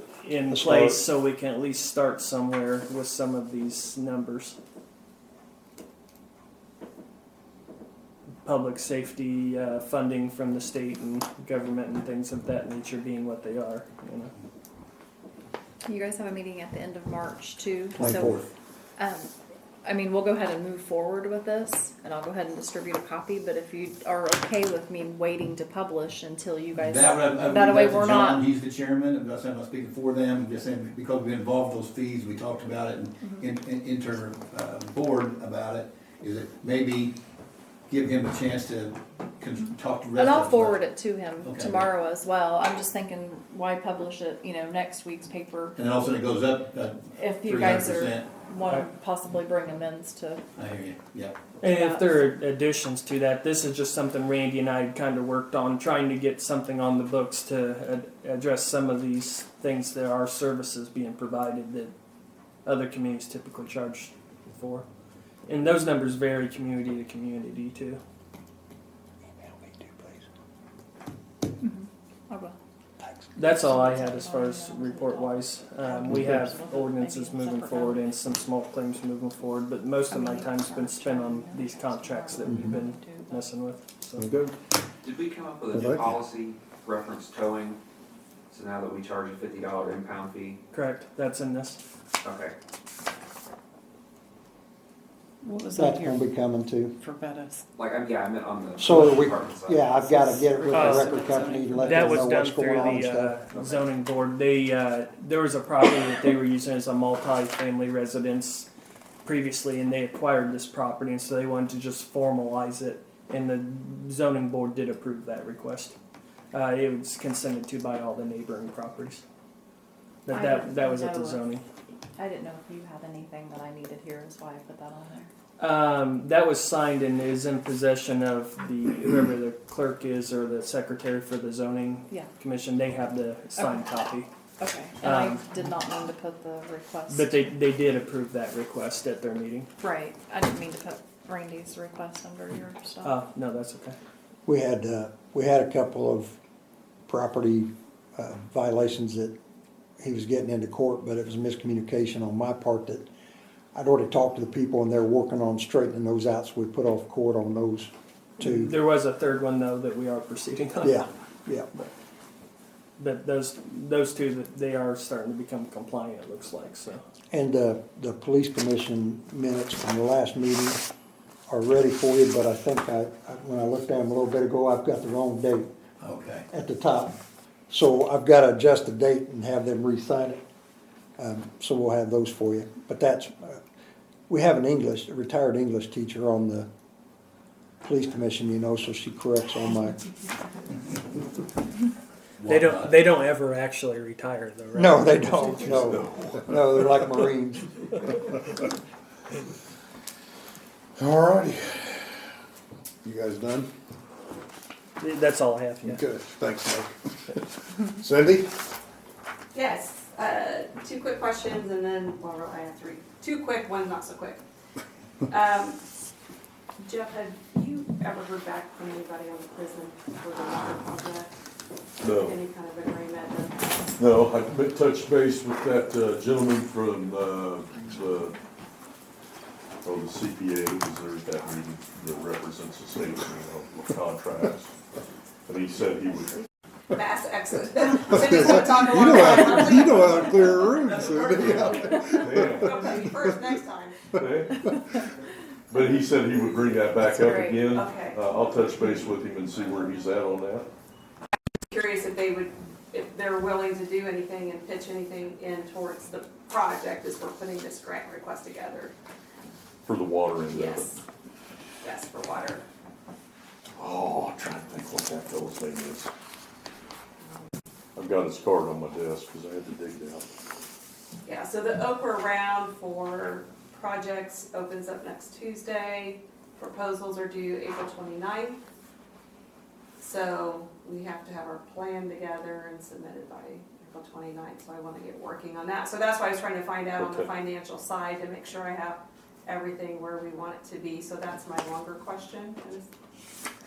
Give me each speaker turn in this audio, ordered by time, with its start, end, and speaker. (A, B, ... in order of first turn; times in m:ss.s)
0:00.2-0:04.6 A
0:00.5-0:01.0 B
0:08.4-0:14.3 A
0:15.8-0:18.3 C
0:18.0-0:18.5 D
0:18.0-0:18.3 B
0:19.0-0:19.3 C
0:19.8-0:28.4 C
0:26.7-0:37.2 D
0:37.9-0:40.8 D
0:40.2-0:45.7 C
0:41.4-0:41.9 D
0:45.8-0:48.4 D
0:47.2-0:50.4 C
0:50.6-0:51.4 D
0:51.6-1:01.9 A
0:51.6-0:52.1 C
1:02.6-1:04.8 A
1:05.5-1:08.0 A
1:09.8-1:10.1 E
1:11.6-1:12.5 C
1:13.4-1:24.3 A
1:13.5-1:18.0 C
1:20.1-1:23.4 C
1:25.0-1:27.8 F
1:25.7-1:26.2 B
1:28.5-1:30.6 F
1:30.7-1:31.8 A
1:32.2-1:32.5 F
1:35.4-1:37.6 E
1:35.7-1:36.9 B
1:37.8-1:41.2 F
1:38.8-1:43.4 B
1:40.6-1:42.4 E
1:40.7-1:41.1 A
1:41.7-1:48.7 A
1:43.5-1:43.8 F
1:49.2-1:56.0 A
1:56.5-1:59.2 A
2:00.2-2:01.6 A
2:00.3-2:01.4 C
2:02.2-2:05.2 C
2:05.6-2:14.3 A
2:14.6-2:17.3 C
2:15.0-2:15.5 A
2:17.1-2:19.7 A
2:19.8-2:23.1 C
2:23.0-2:24.0 A
2:24.4-2:26.4 B
2:27.1-2:29.3 B
2:30.0-2:33.1 B
2:33.7-2:38.7 B
2:38.4-2:41.0 A
2:40.8-2:41.7 B
2:43.0-2:47.0 A
2:47.3-2:50.8 B
2:51.5-2:55.7 B
2:56.0-2:56.4 D
2:56.5-2:57.1 B
2:57.7-3:00.4 B
3:01.2-3:03.6 B
3:04.3-3:06.7 B
3:07.8-3:10.0 B
3:12.4-3:12.9 D
3:12.4-3:16.0 A
3:14.7-3:18.0 B
3:21.0-3:21.4 E
3:21.1-3:21.9 G
3:23.2-3:23.6 G
3:25.0-3:26.0 A
3:26.0-3:26.4 E
3:26.5-3:26.8 G
3:28.1-3:28.4 G
3:29.5-3:34.4 H
3:35.3-3:35.8 H
3:36.8-3:41.3 H
3:42.0-3:42.4 I
3:42.2-3:43.7 H
3:44.0-3:48.3 I
3:49.8-3:54.7 I
3:55.5-3:56.4 I
3:56.9-4:00.9 H
3:58.9-4:01.7 G
4:00.9-4:02.2 D
4:01.4-4:03.1 I
4:02.2-4:04.0 H
4:04.1-4:04.7 I
4:05.7-4:10.7 I
4:07.0-4:08.4 H
4:11.7-4:18.9 H
4:19.8-4:20.9 I
4:20.5-4:21.0 H
4:21.8-4:22.6 H
4:23.8-4:26.1 I
4:28.0-4:30.3 I
4:31.2-4:38.6 H
4:40.0-4:52.9 H
4:46.9-4:47.3 I